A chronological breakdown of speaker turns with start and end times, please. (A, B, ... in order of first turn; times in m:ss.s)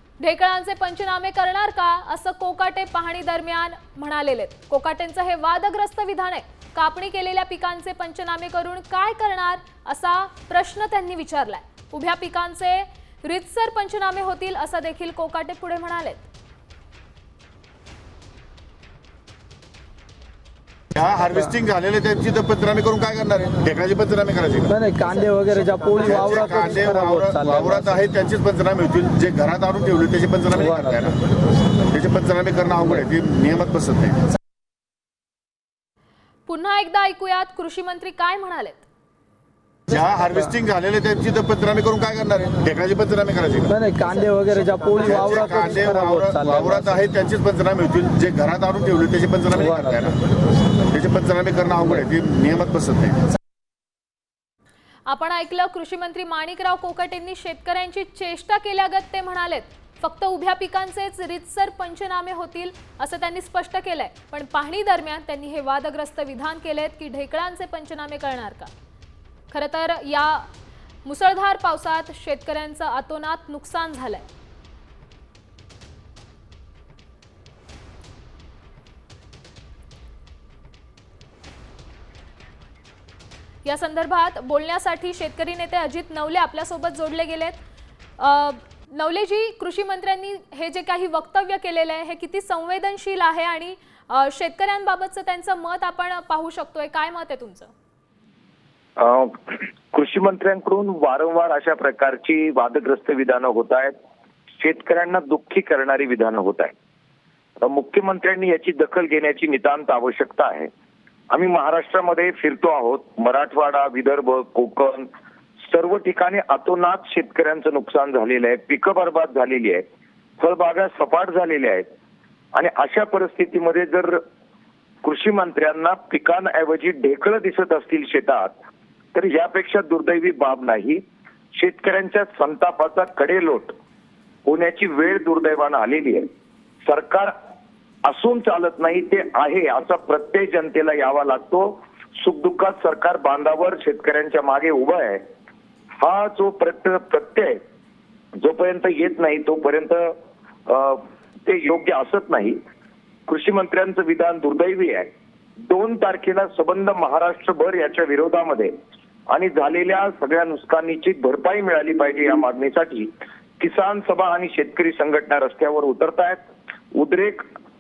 0:00.2-0:16.3 A
0:21.0-0:24.8 B
0:24.7-0:27.7 C
0:26.0-0:31.2 B
0:31.8-0:34.3 B
0:36.5-0:38.9 A
0:39.9-0:43.8 B
0:43.7-0:46.6 C
0:45.0-0:50.2 B
0:50.8-0:53.3 B
0:55.1-1:08.7 A
1:09.5-1:10.5 A
1:11.0-1:14.3 A
1:23.6-1:27.6 A
1:28.2-1:37.7 A
1:39.0-1:43.9 D
1:44.6-1:46.7 D
1:47.6-1:50.7 D
1:51.3-1:55.1 D
1:55.6-1:59.8 D
2:00.4-2:01.9 D
2:02.6-2:04.2 D
2:05.0-2:08.6 D
2:09.2-2:11.0 D
2:11.6-2:13.8 D
2:14.5-2:16.3 D
2:16.9-2:17.3 D
2:18.1-2:25.2 D
2:26.0-2:27.6 D
2:28.4-2:32.6 D
2:33.3-2:35.1 D
2:35.7-2:38.7 D
2:39.3-2:46.4 D
2:47.0-2:47.5 D